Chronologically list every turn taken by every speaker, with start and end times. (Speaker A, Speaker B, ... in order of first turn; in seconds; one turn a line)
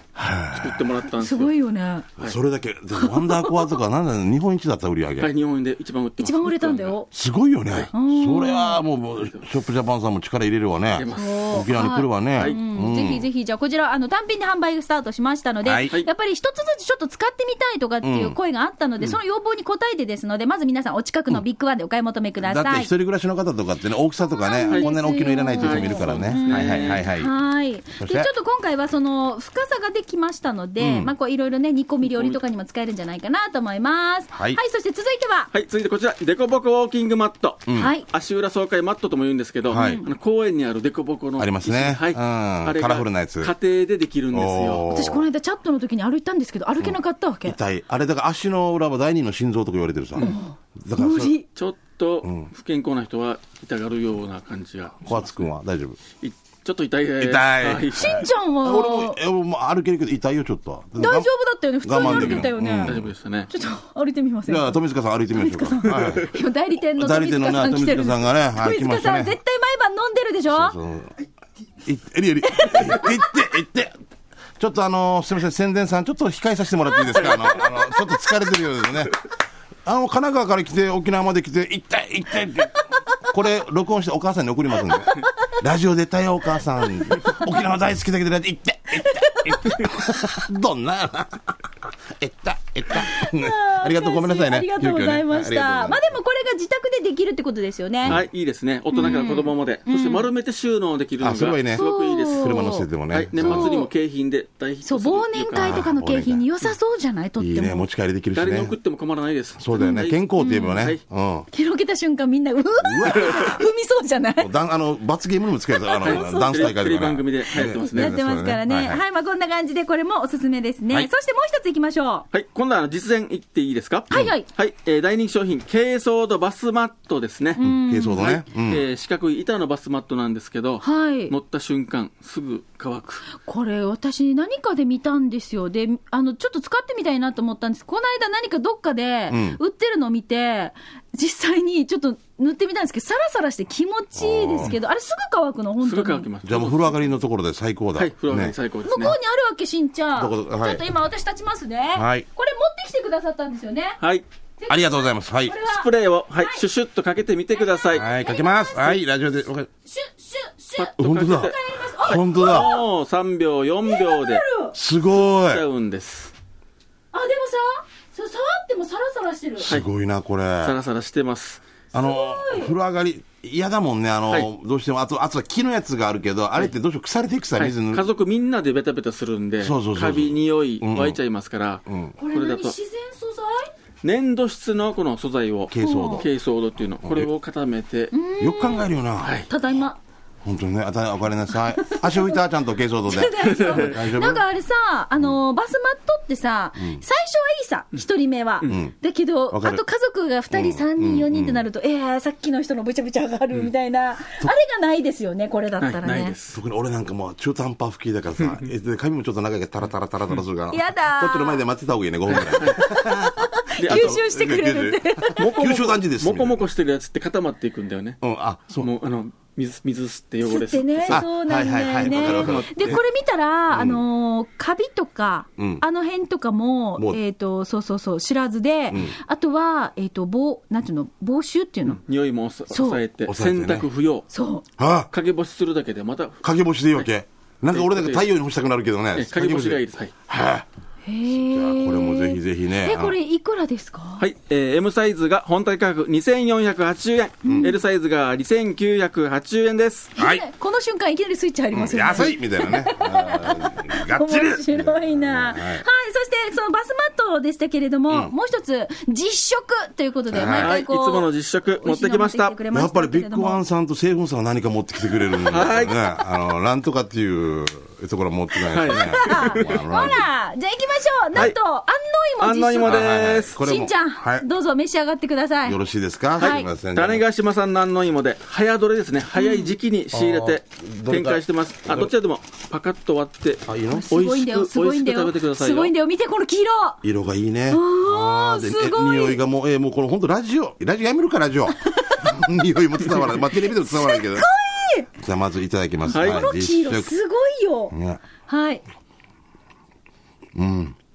Speaker A: 0.1-0.8
Speaker B: 0.5-1.5
Speaker C: 1.2-2.1
Speaker A: 2.2-5.3
Speaker C: 2.9-3.8
Speaker B: 5.2-7.0
Speaker C: 6.2-7.1
Speaker A: 7.1-13.2
Speaker C: 7.9-8.8
Speaker B: 9.2-9.5
Speaker B: 10.9-11.6
Speaker C: 11.1-22.9
Speaker A: 15.6-15.9
Speaker A: 18.0-18.4
Speaker A: 22.4-27.3
Speaker C: 24.3-35.5
Speaker B: 24.7-24.9
Speaker B: 25.6-27.1
Speaker A: 28.0-28.3
Speaker A: 30.8-31.1
Speaker B: 32.0-32.4
Speaker A: 34.3-34.6
Speaker B: 35.5-44.8
Speaker C: 37.7-38.0
Speaker A: 39.7-40.0
Speaker C: 39.7-40.0
Speaker A: 41.4-43.5
Speaker A: 44.3-45.2
Speaker C: 44.9-47.6
Speaker A: 46.8-51.3
Speaker C: 50.2-51.5
Speaker B: 51.5-55.4
Speaker A: 52.2-52.5
Speaker A: 55.0-56.0
Speaker B: 56.2-58.2
Speaker A: 57.2-61.3
Speaker C: 57.9-59.2
Speaker C: 61.0-63.0
Speaker A: 61.8-63.1
Speaker B: 62.0-63.5
Speaker C: 63.5-64.8
Speaker A: 64.5-66.3
Speaker C: 65.3-70.8
Speaker A: 66.9-69.3
Speaker A: 70.5-71.1
Speaker A: 71.8-73.9
Speaker C: 72.5-73.3
Speaker A: 74.6-79.2
Speaker C: 77.1-78.1
Speaker A: 79.8-82.8
Speaker A: 83.3-91.5
Speaker C: 84.9-85.5
Speaker C: 89.0-89.6
Speaker A: 92.2-96.0
Speaker C: 93.0-98.2
Speaker B: 98.0-105.8
Speaker C: 98.9-100.3
Speaker A: 101.2-103.7
Speaker C: 101.7-102.8
Speaker C: 103.4-103.9
Speaker C: 104.8-107.9
Speaker A: 105.5-106.4
Speaker A: 107.4-108.7
Speaker B: 108.3-110.2
Speaker A: 109.6-111.5
Speaker C: 109.7-110.9
Speaker C: 111.5-114.5
Speaker A: 112.8-113.6
Speaker B: 113.2-113.5
Speaker A: 114.4-119.0
Speaker C: 115.7-116.8
Speaker B: 116.0-118.1
Speaker C: 117.5-122.2
Speaker B: 122.3-127.6
Speaker C: 124.1-124.5
Speaker C: 127.6-128.4
Speaker A: 127.6-128.8
Speaker B: 128.2-133.3
Speaker C: 130.8-131.3
Speaker C: 133.3-146.3
Speaker A: 139.3-139.6
Speaker A: 144.2-144.7
Speaker B: 145.8-147.1
Speaker A: 146.4-148.5
Speaker B: 148.0-149.2
Speaker C: 148.8-154.0
Speaker A: 150.2-150.9
Speaker A: 151.9-152.2
Speaker C: 154.6-156.6
Speaker A: 154.7-155.6
Speaker B: 155.6-158.1
Speaker C: 157.5-159.0
Speaker A: 157.9-159.7
Speaker C: 159.8-162.8
Speaker B: 160.8-164.4
Speaker A: 161.0-162.7
Speaker C: 163.9-164.8
Speaker A: 164.7-165.6
Speaker B: 165.1-166.3
Speaker C: 167.1-169.7
Speaker A: 169.6-170.7
Speaker B: 170.6-171.6
Speaker A: 171.9-178.0
Speaker C: 172.0-172.7
Speaker B: 177.5-182.8
Speaker A: 179.6-181.2
Speaker A: 181.9-182.1
Speaker C: 182.2-183.7
Speaker B: 184.0-188.1
Speaker A: 185.7-186.3
Speaker C: 185.8-186.2
Speaker A: 187.0-187.3
Speaker C: 188.1-188.9
Speaker A: 188.4-189.5
Speaker B: 189.2-189.5
Speaker C: 189.5-190.0
Speaker A: 190.4-194.4
Speaker C: 191.6-192.4
Speaker C: 193.1-206.3
Speaker B: 193.4-194.0
Speaker A: 196.8-197.0
Speaker A: 198.7-198.9
Speaker A: 199.5-199.8
Speaker A: 200.5-201.7
Speaker B: 205.8-206.6
Speaker A: 206.5-216.6
Speaker B: 208.4-208.7
Speaker C: 210.7-211.6
Speaker B: 212.3-212.8
Speaker C: 212.7-215.4
Speaker B: 213.8-214.2
Speaker B: 215.3-218.2
Speaker A: 218.2-218.9
Speaker B: 218.8-221.3
Speaker C: 220.4-232.0
Speaker A: 221.1-223.0
Speaker B: 222.0-223.0
Speaker A: 223.7-224.0
Speaker A: 225.6-225.8
Speaker A: 228.9-229.1
Speaker B: 231.9-234.3
Speaker C: 232.7-233.0
Speaker A: 233.3-233.9
Speaker C: 234.3-234.6
Speaker A: 234.8-235.1
Speaker B: 235.1-237.1
Speaker A: 236.4-240.7
Speaker B: 237.7-238.3
Speaker B: 239.1-240.1
Speaker C: 241.0-244.2
Speaker A: 241.2-243.2
Speaker B: 244.2-250.1
Speaker A: 247.4-247.7
Speaker C: 247.5-247.8
Speaker C: 250.2-263.6
Speaker A: 250.2-250.4
Speaker A: 251.7-255.8
Speaker A: 260.3-260.7
Speaker B: 260.3-262.6
Speaker A: 262.7-270.3
Speaker C: 265.3-265.6
Speaker B: 265.5-266.1
Speaker B: 268.7-270.1
Speaker C: 268.8-273.1
Speaker B: 272.4-273.6
Speaker A: 272.8-274.5
Speaker C: 273.6-275.8
Speaker A: 275.6-277.2
Speaker B: 276.4-285.9
Speaker C: 276.4-276.7
Speaker C: 279.3-279.7
Speaker A: 280.1-282.1
Speaker A: 283.6-284.1
Speaker C: 283.9-287.0
Speaker A: 287.0-294.5
Speaker C: 287.7-289.4
Speaker C: 293.7-295.1
Speaker A: 295.2-297.1
Speaker C: 296.1-297.9
Speaker B: 296.1-296.5
Speaker A: 297.9-298.2
Speaker C: 298.4-298.8
Speaker A: 300.5-301.0